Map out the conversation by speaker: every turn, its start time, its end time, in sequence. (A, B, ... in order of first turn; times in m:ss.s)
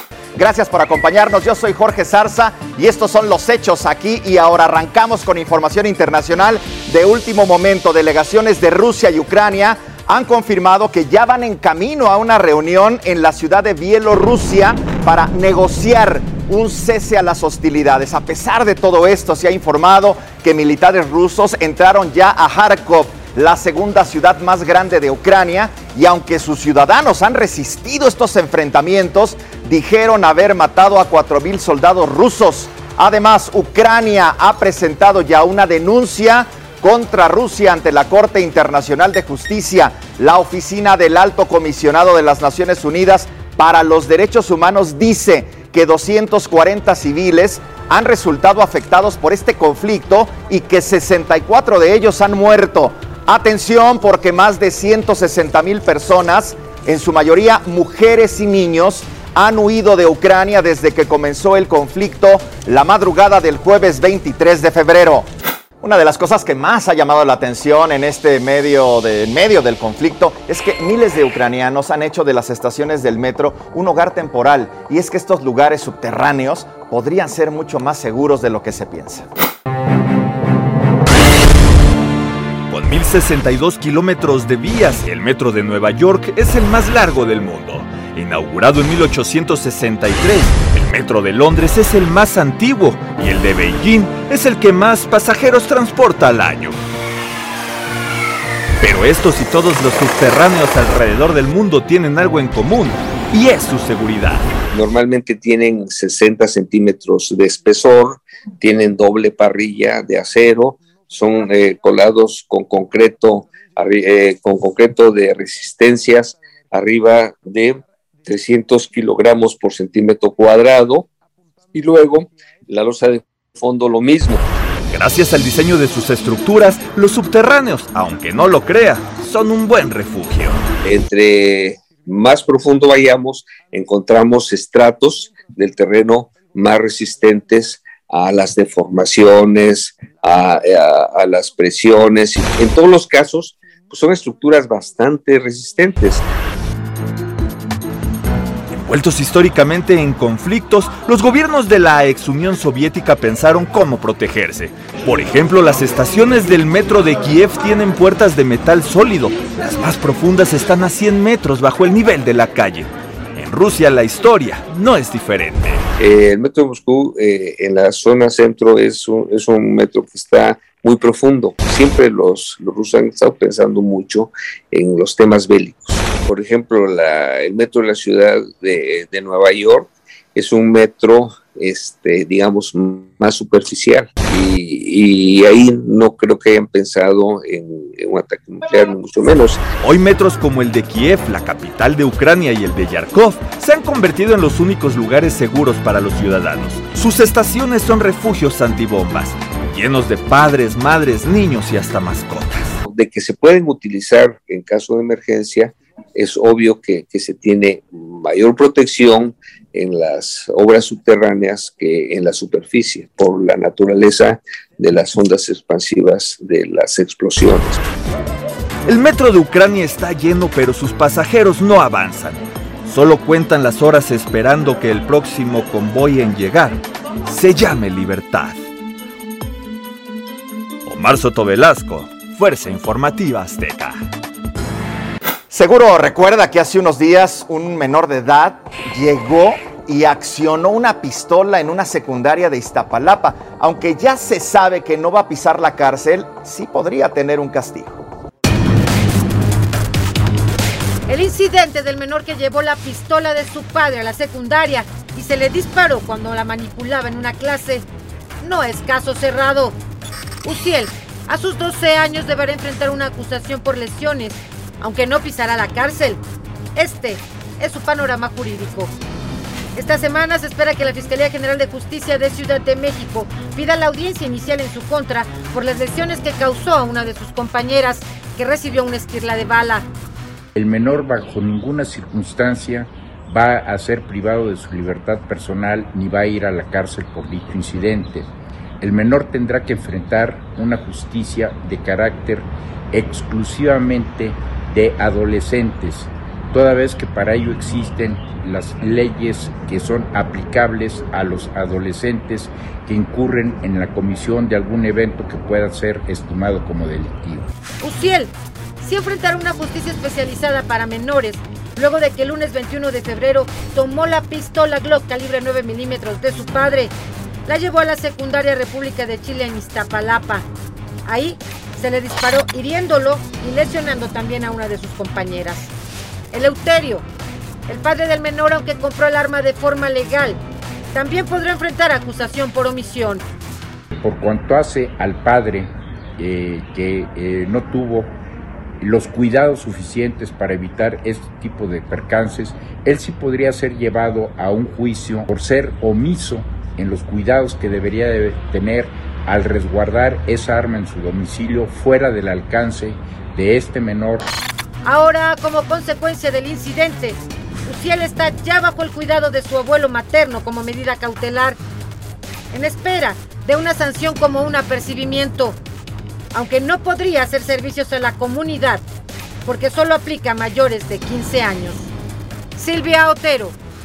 0:00.4-1:05.3 A
1:05.8-1:19.3 A
1:22.7-1:36.8 B
1:38.8-1:44.5 B
1:44.7-2:01.1 C
2:01.7-2:04.4 C
2:04.9-2:10.6 B
2:10.8-2:26.2 C
2:28.7-2:45.8 B
2:46.0-3:09.6 C
3:09.8-3:22.8 B
3:22.8-3:37.8 C
3:38.8-3:48.6 B
3:50.8-3:54.1 B
3:55.5-4:08.1 A
4:11.1-4:17.9 D
4:18.4-4:19.8 D
4:20.4-4:26.2 D
4:26.7-4:28.9 D
4:29.7-4:39.9 D
4:40.5-5:07.5 E
5:07.8-5:16.9 D
5:17.4-5:20.4 D
5:21.0-5:25.7 D
5:26.3-5:27.1 D
5:27.7-5:30.4 D
5:30.9-5:33.2 D
5:34.0-5:38.2 E
5:38.8-5:54.3 E
5:54.8-6:01.6 D
6:02.5-6:05.6 D
6:06.3-6:08.8 D
6:09.4-6:11.9 D
6:12.5-6:13.6 D